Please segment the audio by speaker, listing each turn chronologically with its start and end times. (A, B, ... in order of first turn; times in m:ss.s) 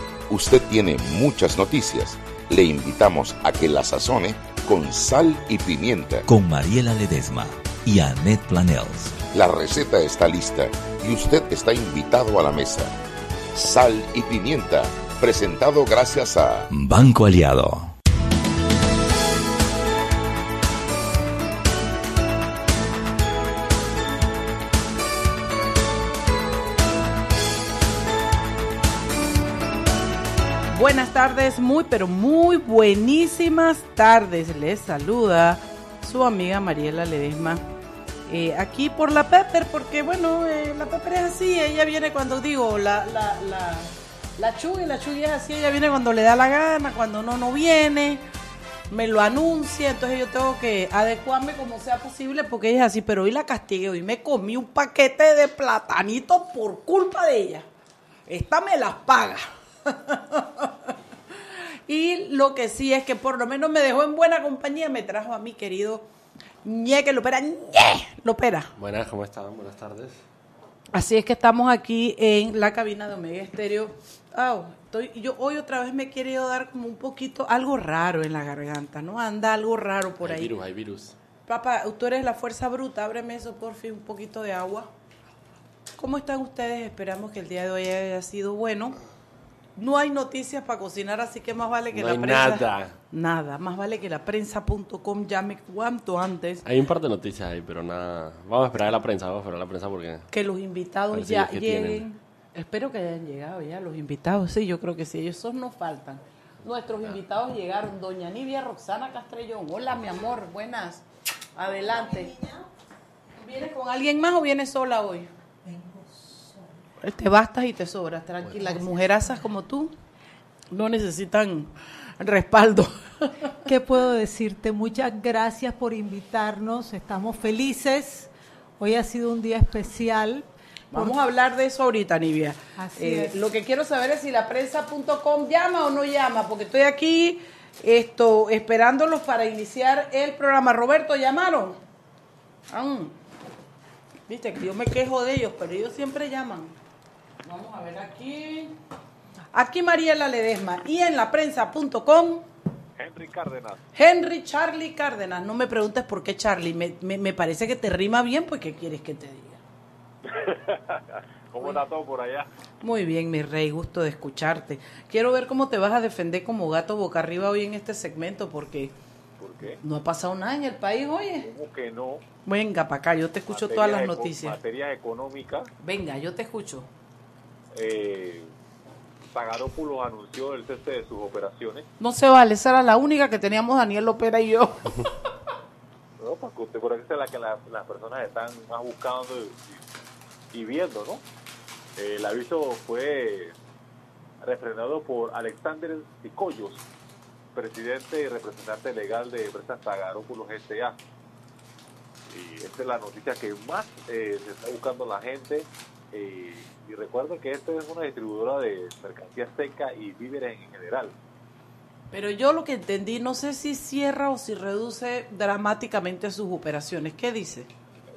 0:00.3-0:06.2 A
0:06.3-0:09.2 B
0:09.3-0:12.9 A
0:13.5-0:16.7 A
0:16.7-0:17.9 B
0:30.7-0:37.6 C
0:38.3-0:48.2 C
0:48.9-0:57.6 C
0:58.3-1:00.7 C
1:01.9-1:06.1 C
1:06.6-1:08.7 C
1:08.8-1:10.2 D
1:10.9-1:20.6 C
1:20.2-1:21.1 D
1:21.4-1:24.9 C
1:26.0-1:29.0 C
1:29.8-1:36.6 C
1:31.9-1:32.9 D
1:36.6-1:40.2 D
1:40.3-1:52.3 C
1:41.1-1:42.0 D
1:51.6-1:52.7 E
1:53.4-1:55.3 C
1:55.6-1:56.8 E
1:57.0-1:59.9 C
1:58.6-1:59.4 E
2:00.7-2:03.5 C
2:03.6-2:11.2 E
2:10.9-2:21.8 C
2:12.8-2:13.4 E
2:22.7-2:23.1 C
2:24.3-2:26.7 C
2:27.4-2:28.7 C
2:29.5-2:32.4 C
2:33.0-2:33.8 F
2:33.9-2:39.6 C
2:40.2-2:42.5 F
2:42.8-2:48.9 C
2:49.4-2:49.8 F
2:49.8-2:51.5 C
2:51.4-2:52.2 F
2:52.4-2:54.6 C
2:53.5-2:55.7 F
2:55.8-2:56.9 C
2:57.7-2:58.5 F
2:59.3-3:01.9 F
3:02.0-3:05.1 C
3:06.2-3:09.8 F
3:10.5-3:11.2 F
3:12.0-3:13.5 F
3:14.4-3:16.8 F
3:17.5-3:21.0 F
3:22.3-3:31.1 F
3:32.1-3:37.7 C